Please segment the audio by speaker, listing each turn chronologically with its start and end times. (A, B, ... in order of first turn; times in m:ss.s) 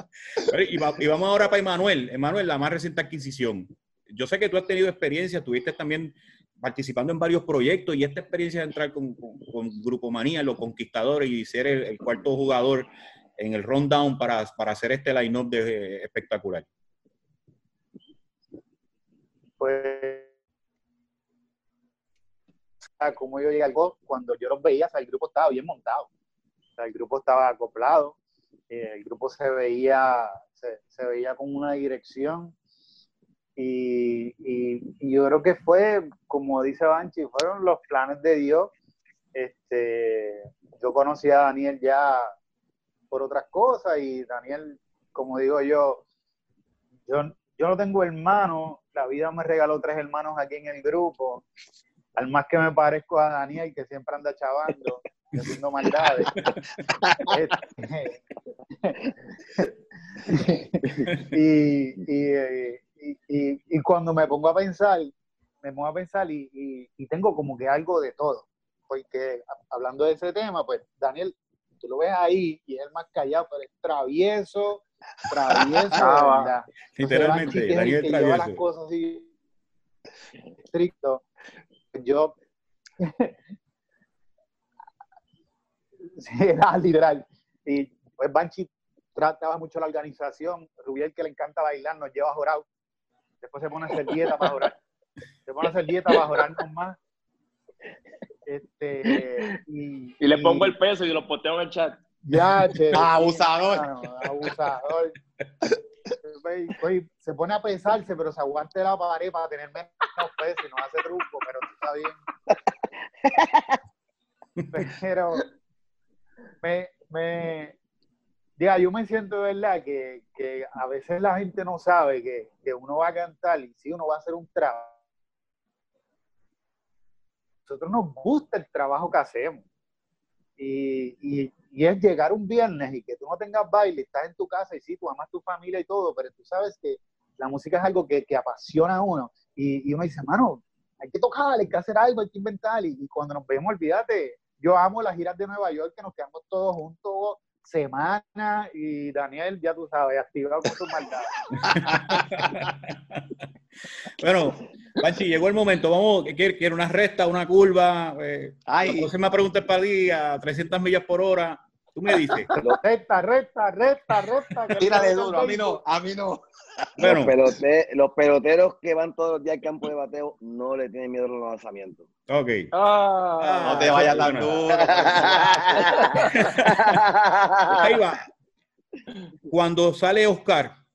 0:00.4-0:16.7 A
0:19.6-0:20.3 B
0:23.0-0:26.1 B
0:26.8-0:28.2 B
0:28.7-0:32.5 B
0:33.6-0:38.7 B
0:39.4-0:42.3 B
0:43.1-0:46.0 B
0:47.1-0:51.4 B
0:52.2-0:56.5 B
0:57.2-0:58.2 B
1:00.2-1:19.3 B
1:15.5-1:15.9 C
1:16.0-1:16.5 D
1:17.0-1:18.6 A
1:20.7-1:21.2 B
1:21.9-1:22.3 B
1:23.0-1:23.4 B
1:26.2-1:32.6 B
1:33.4-1:34.8 B
1:35.5-1:37.0 B
1:38.5-1:40.7 B
1:40.2-1:42.0 D
1:42.2-1:45.2 B
1:42.9-1:43.9 C
1:46.2-1:52.2 B
1:54.7-1:55.5 B
1:56.6-1:57.8 B
1:58.6-2:04.9 B
2:07.7-2:09.6 B
2:10.6-2:31.8 B
2:31.6-2:33.3 A
2:34.1-2:42.5 A
2:38.7-2:39.1 C
2:42.6-2:45.8 B
2:44.7-2:46.4 C
2:47.0-2:47.3 A
2:47.0-2:52.0 E
2:52.3-2:52.7 A
2:52.7-2:54.4 D
2:53.4-2:55.1 A
2:53.6-2:55.9 C
2:55.1-2:56.2 E
2:55.8-2:56.3 D
2:56.4-2:57.0 A
2:56.8-2:57.8 E
2:57.7-2:58.3 A
2:59.5-3:00.8 A